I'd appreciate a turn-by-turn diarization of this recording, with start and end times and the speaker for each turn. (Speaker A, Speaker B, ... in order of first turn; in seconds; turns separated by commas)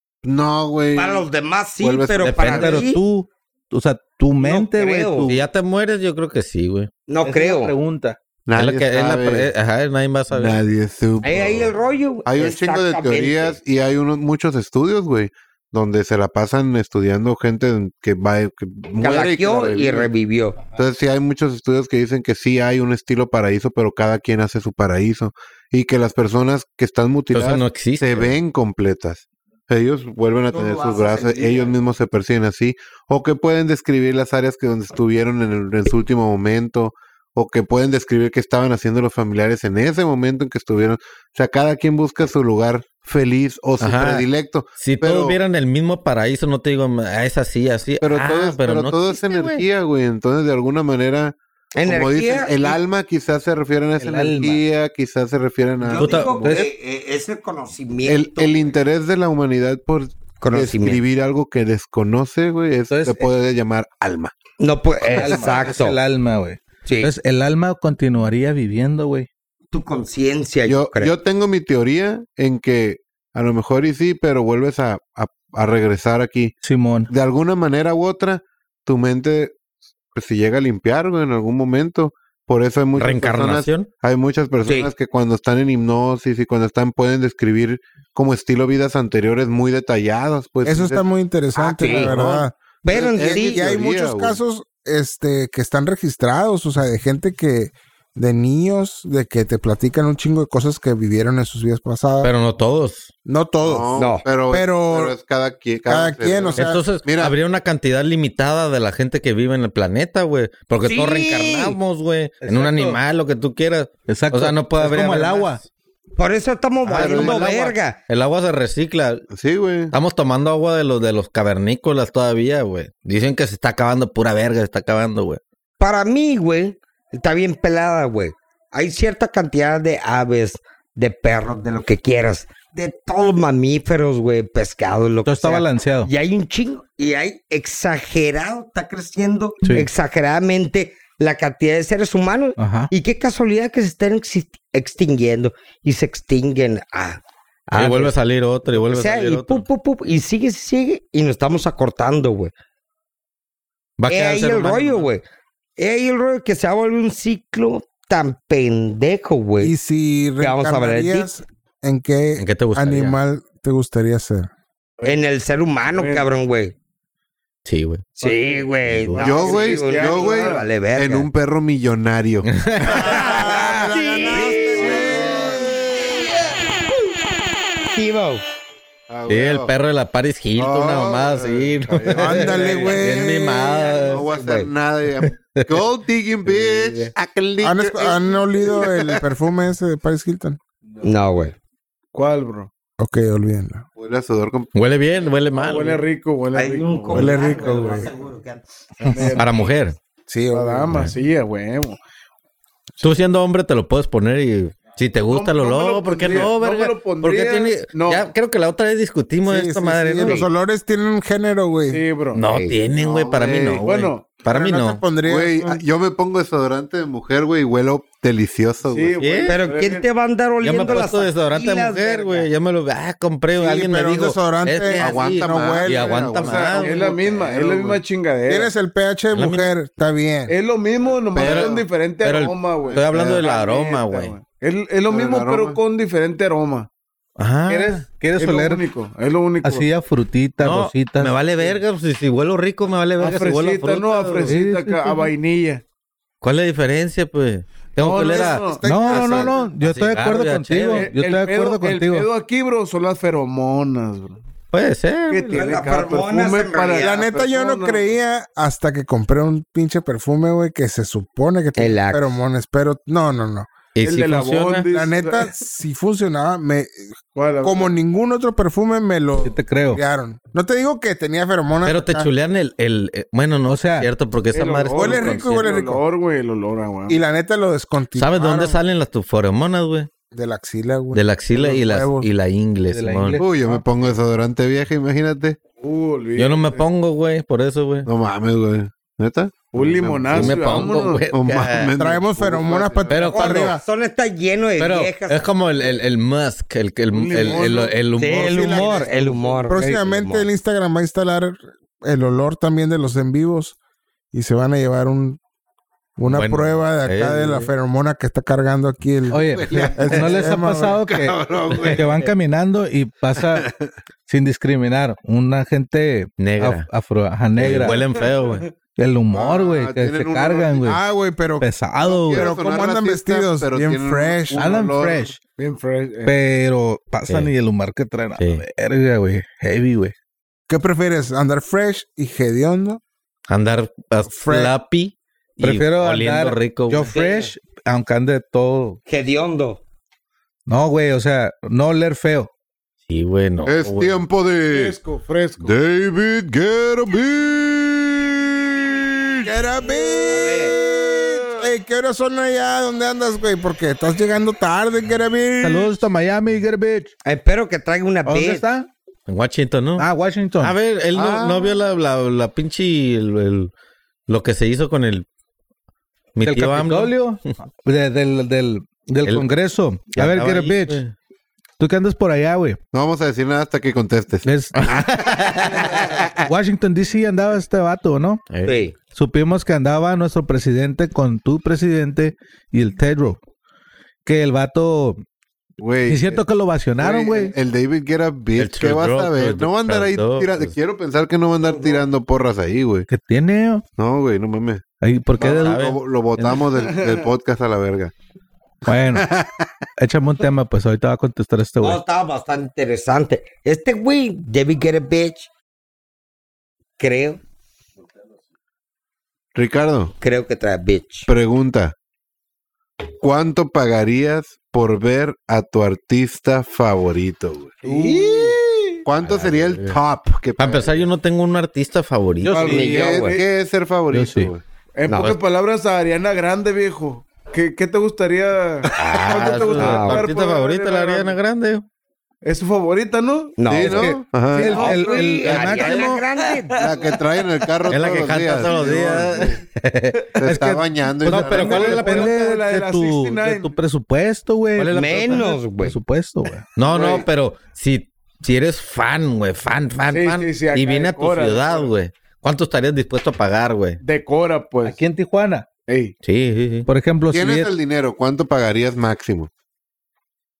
Speaker A: 0.2-1.2, Speaker B: 0.9-3.0, Speaker A: 1.8-2.8, Speaker C: 2.2-2.7, Speaker D: 2.5-5.4, Speaker B: 4.4-5.3, Speaker C: 5.2-6.9, Speaker B: 7.1-7.8, Speaker D: 7.2-8.2, Speaker A: 8.4-9.5, Speaker C: 8.6-10.6, Speaker A: 10.3-20.1, Speaker B: 11.2-13.6, Speaker B: 19.0-20.6, Speaker A: 20.8-45.4, Speaker C: 27.3-28.4, Speaker B: 30.5-31.7, Speaker C: 43.8-44.2, Speaker C: 44.8-49.6, Speaker A: 48.0-56.6, Speaker B: 51.8-52.8, Speaker D: 54.0-54.6, Speaker B: 55.8-58.5, Speaker C: 56.0-56.3, Speaker D: 56.4-56.7, Speaker A: 58.0-64.3, Speaker B: 60.4-61.0, Speaker D: 62.9-63.3, Speaker B: 64.6-66.0, Speaker A: 65.1-65.5, Speaker D: 65.1-69.3, Speaker B: 66.8-67.1, Speaker B: 69.7-71.1, Speaker A: 70.7-76.5, Speaker D: 76.6-77.1, Speaker A: 77.1-79.5, Speaker A: 80.1-91.0, Speaker C: 83.0-83.9, Speaker E: 90.6-102.3, Speaker B: 91.5-92.2, Speaker A: 91.8-94.4, Speaker B: 92.8-93.7, Speaker C: 102.2-103.1, Speaker E: 103.2-103.9, Speaker A: 103.6-107.3, Speaker B: 104.0-104.2, Speaker E: 104.5-105.1, Speaker E: 105.8-106.8, Speaker C: 106.5-115.6, Speaker B: 110.8-111.8, Speaker D: 112.4-113.0, Speaker D: 114.1-115.6, Speaker B: 116.2-118.0, Speaker C: 116.8-119.2, Speaker A: 116.9-117.7, Speaker A: 119.3-119.9, Speaker C: 119.9-125.4, Speaker B: 125.8-148.1, Speaker D: 135.2-136.1, Speaker D: 139.6-139.9, Speaker D: 142.6-142.9, Speaker C: 147.7-149.7, Speaker B: 148.7-152.5, Speaker C: 154.0-155.1, Speaker B: 154.1-155.2, Speaker B: 155.8-159.7, Speaker E: 159.6-164.5, Speaker B: 160.4-161.3, Speaker C: 162.4-163.2, Speaker B: 165.0-166.7, Speaker F: 165.9-166.3, Speaker C: 167.6-168.1, Speaker F: 168.2-170.7, Speaker B: 168.2-171.3, Speaker C: 168.9-169.2, Speaker A: 169.2-172.5, Speaker C: 172.5-173.3, Speaker E: 172.9-176.1, Speaker B: 172.9-175.2, Speaker A: 173.0-175.5, Speaker B: 177.9-178.4, Speaker A: 179.1-179.7, Speaker C: 179.3-184.2, Speaker A: 180.6-183.0, Speaker E: 182.1-183.9, Speaker B: 183.9-184.7, Speaker A: 184.1-189.2, Speaker C: 185.2-185.7, Speaker C: 186.5-186.9, Speaker E: 187.6-190.6, Speaker B: 191.0-191.5, Speaker F: 192.1-192.7, Speaker E: 193.0-193.8, Speaker A: 194.0-194.7, Speaker C: 194.7-196.0, Speaker F: 195.6-198.1, Speaker B: 196.5-198.6, Speaker E: 197.1-198.1, Speaker F: 199.0-199.7, Speaker C: 199.3-200.0, Speaker E: 200.3-201.0, Speaker F: 200.5-202.0, Speaker C: 203.0-210.5, Speaker F: 205.3-208.3, Speaker E: 209.4-212.0, Speaker F: 211.9-212.4, Speaker C: 212.3-215.0, Speaker B: 212.3-212.8, Speaker A: 213.0-213.8, Speaker F: 213.3-214.4, Speaker E: 214.5-215.8, Speaker A: 215.2-219.2, Speaker F: 218.8-220.1, Speaker C: 219.2-219.6, Speaker B: 219.4-222.5, Speaker C: 220.6-227.0, Speaker E: 223.5-226.5, Speaker A: 225.0-228.0, Speaker F: 226.4-228.7, Speaker E: 228.5-230.5, Speaker C: 229.3-229.7, Speaker F: 230.5-236.9, Speaker A: 231.3-231.8, Speaker C: 231.3-234.3, Speaker A: 232.9-233.5, Speaker A: 235.1-235.8, Speaker C: 237.4-238.0, Speaker D: 237.7-238.8, Speaker F: 237.7-239.9, Speaker D: 239.6-241.4, Speaker C: 240.6-244.6, Speaker F: 243.2-245.8, Speaker D: 244.5-245.3, Speaker C: 246.4-251.1, Speaker F: 248.0-249.3, Speaker E: 248.2-249.6, Speaker D: 248.8-252.3, Speaker F: 250.9-254.4, Speaker C: 254.7-255.9, Speaker F: 255.3-258.0, Speaker B: 255.5-257.2, Speaker E: 257.0-263.7, Speaker B: 261.8-262.3, Speaker C: 263.9-264.9, Speaker F: 264.0-265.5, Speaker E: 264.9-272.3, Speaker F: 267.3-267.9, Speaker D: 269.4-270.0, Speaker C: 271.8-275.7, Speaker D: 273.7-274.1, Speaker F: 274.5-277.2, Speaker E: 274.9-276.0, Speaker E: 277.1-278.8, Speaker C: 278.1-280.1, Speaker E: 280.3-282.3, Speaker C: 281.1-283.4, Speaker D: 282.9-283.8, Speaker A: 283.4-285.6, Speaker F: 285.8-286.9, Speaker C: 286.4-288.1, Speaker A: 288.1-293.3, Speaker F: 289.7-291.3, Speaker C: 290.3-291.9, Speaker E: 292.0-293.8, Speaker C: 293.1-293.8, Speaker B: 293.3-295.5, Speaker C: 294.8-299.0, Speaker F: 297.1-298.0, Speaker E: 297.4-297.8, Speaker B: 298.2-299.8, Speaker E: 298.4-299.1, Speaker F: 298.8-300.1, Speaker E: 299.7-303.8, Speaker E: 304.3-305.4, Speaker E: 306.2-311.0, Speaker C: 306.3-307.7, Speaker D: 309.3-313.7, Speaker A: 309.3-312.2, Speaker A: 313.3-313.9, Speaker D: 314.3-318.0, Speaker C: 316.4-316.9, Speaker C: 317.6-318.7, Speaker F: 317.7-318.7, Speaker D: 318.9-321.0, Speaker A: 319.3-320.9, Speaker E: 320.8-321.7, Speaker D: 321.6-322.5, Speaker A: 322.0-325.3, Speaker E: 322.3-324.6, Speaker D: 324.5-325.4, Speaker F: 325.6-326.3, Speaker D: 326.2-330.1, Speaker C: 328.4-328.6, Speaker E: 330.7-333.0, Speaker C: 333.5-337.1, Speaker E: 334.4-334.7, Speaker D: 335.6-339.0, Speaker B: 337.1-337.4, Speaker B: 339.1-339.8, Speaker D: 340.7-342.5, Speaker C: 343.1-344.2, Speaker A: 343.6-345.0, Speaker F: 344.7-345.7, Speaker A: 345.6-349.5, Speaker E: 349.4-355.9, Speaker F: 349.9-351.6, Speaker D: 355.6-357.1, Speaker B: 357.2-358.6, Speaker D: 358.2-358.9, Speaker C: 359.3-360.1, Speaker D: 360.0-360.8, Speaker C: 360.6-363.7, Speaker A: 361.1-361.8, Speaker C: 364.3-365.2, Speaker C: 366.4-367.5, Speaker D: 366.4-371.0, Speaker C: 370.1-371.1, Speaker D: 371.8-372.8, Speaker A: 372.9-376.2, Speaker D: 374.4-375.1, Speaker C: 374.8-375.9, Speaker D: 376.4-378.4, Speaker C: 378.5-378.8, Speaker B: 378.6-378.9, Speaker D: 379.1-383.4, Speaker D: 384.2-385.2, Speaker A: 385.8-386.4, Speaker D: 386.1-387.5, Speaker A: 387.0-393.1, Speaker C: 388.6-390.7, Speaker D: 393.1-393.8, Speaker A: 394.0-394.8, Speaker D: 395.0-396.6, Speaker A: 395.4-398.1, Speaker C: 395.5-396.0, Speaker F: 396.7-397.3, Speaker D: 398.9-399.3, Speaker A: 398.9-399.7, Speaker D: 400.0-402.0, Speaker B: 401.8-405.5, Speaker B: 407.0-407.4, Speaker A: 409.5-410.1, Speaker B: 410.2-411.3, Speaker A: 411.3-411.9, Speaker A: 413.2-418.2, Speaker F: 417.8-419.0, Speaker A: 419.0-421.1, Speaker C: 419.2-420.0, Speaker C: 420.6-422.7, Speaker D: 422.4-422.9, Speaker F: 422.5-423.4, Speaker B: 422.6-423.4, Speaker A: 422.7-424.6, Speaker D: 424.1-424.5, Speaker F: 424.9-431.4, Speaker C: 428.9-431.9, Speaker B: 429.8-430.2, Speaker F: 432.4-433.7, Speaker B: 433.6-436.9, Speaker A: 433.7-436.2, Speaker D: 433.8-436.1, Speaker F: 434.6-435.4, Speaker F: 436.0-437.9, Speaker A: 436.8-439.6, Speaker C: 437.9-440.3, Speaker A: 440.4-442.5, Speaker D: 440.4-446.7, Speaker C: 441.2-442.4, Speaker F: 441.6-443.8, Speaker C: 444.8-445.5, Speaker B: 444.9-446.0, Speaker C: 446.8-454.0, Speaker F: 446.8-447.3, Speaker F: 450.1-451.9, Speaker F: 454.0-455.0, Speaker D: 454.8-455.6, Speaker F: 455.9-456.1, Speaker C: 456.2-456.9, Speaker D: 456.9-457.7, Speaker A: 457.3-459.5